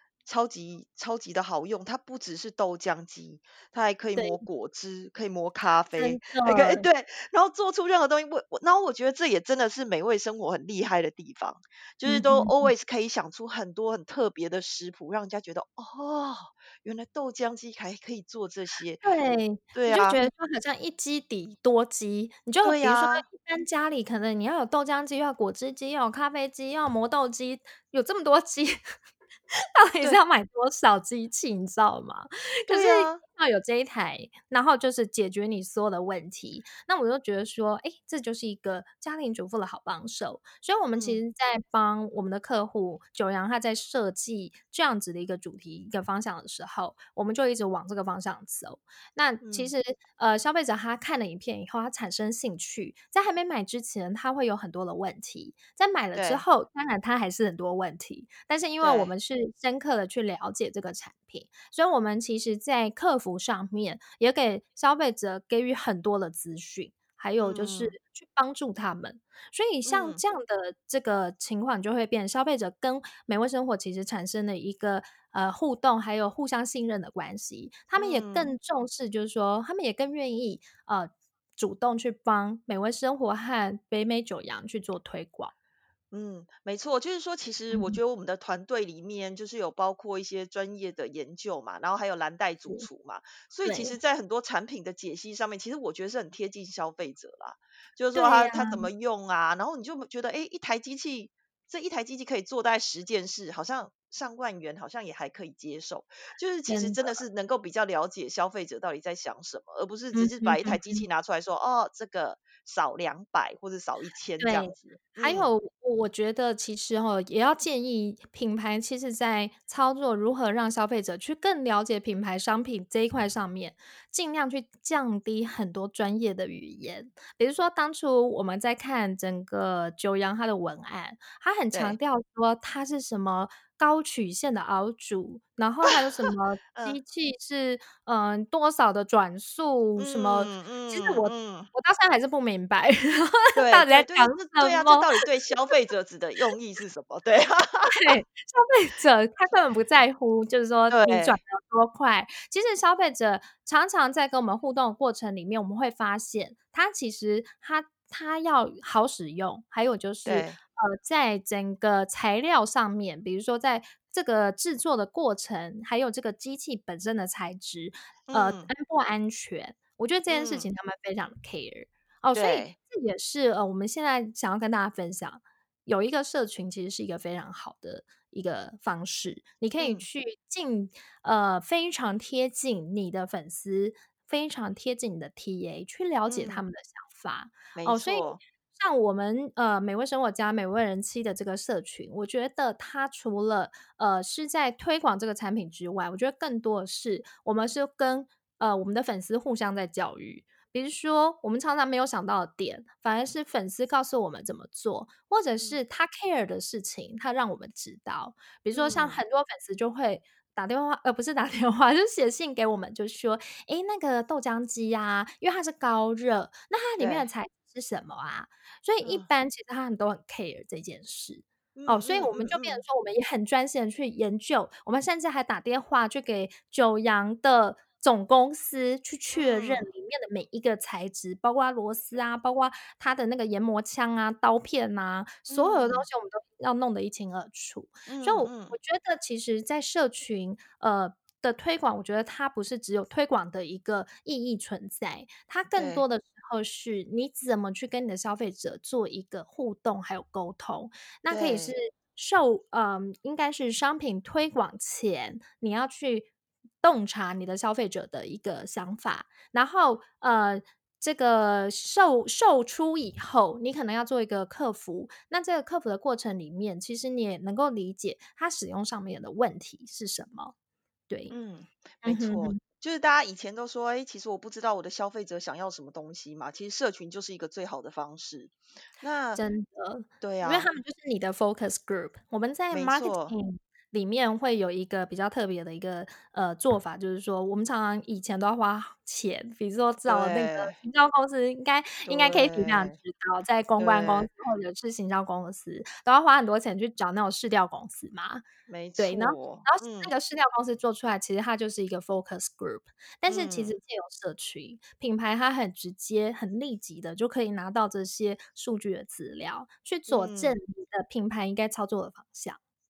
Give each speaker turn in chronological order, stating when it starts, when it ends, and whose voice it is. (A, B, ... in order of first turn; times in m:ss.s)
0:00.2-0:19.2 A
0:04.2-0:04.4 B
0:06.0-0:06.9 B
0:12.1-0:12.7 B
0:19.0-0:28.8 B
0:19.7-0:20.2 A
0:22.6-0:23.2 A
0:29.8-1:25.5 B
0:32.7-0:33.2 A
0:41.0-0:41.2 A
0:49.4-0:49.7 A
0:56.1-0:56.4 A
0:58.8-0:59.1 A
1:07.4-1:08.0 A
1:09.9-1:10.2 A
1:18.0-1:18.5 A
1:26.1-1:55.5 A
1:27.7-1:28.0 B
1:33.6-1:33.9 B
1:38.1-1:38.9 B
1:46.7-1:47.2 B
1:50.1-1:51.0 B
1:54.4-2:25.2 B
2:16.2-2:17.0 A
2:20.0-2:21.7 A
2:23.6-2:28.1 A
2:27.9-4:16.3 B
2:30.9-2:31.4 A
2:40.3-2:40.6 A
2:48.3-2:48.7 A
2:50.3-2:50.7 A
2:52.4-2:52.8 A
2:59.8-3:00.1 A
3:06.3-3:06.6 A
3:07.8-3:08.4 A
3:28.7-3:29.2 A
3:37.0-3:37.3 A
3:41.8-3:42.8 A
3:49.4-3:49.9 A
3:55.5-3:56.1 A
3:58.1-3:58.8 A
4:05.8-4:06.0 A
4:11.3-4:11.7 A
4:16.8-4:30.5 B
4:31.1-4:31.3 B
4:31.3-4:39.4 A
4:32.0-4:32.6 B
4:39.4-4:58.4 B
4:40.2-4:40.7 A
4:42.7-4:43.4 A
4:50.1-4:50.8 A
4:52.0-4:53.0 A
4:53.8-4:54.3 A
4:58.7-5:00.1 A
4:59.0-5:12.6 B
5:03.3-5:03.8 A
5:10.1-5:10.6 A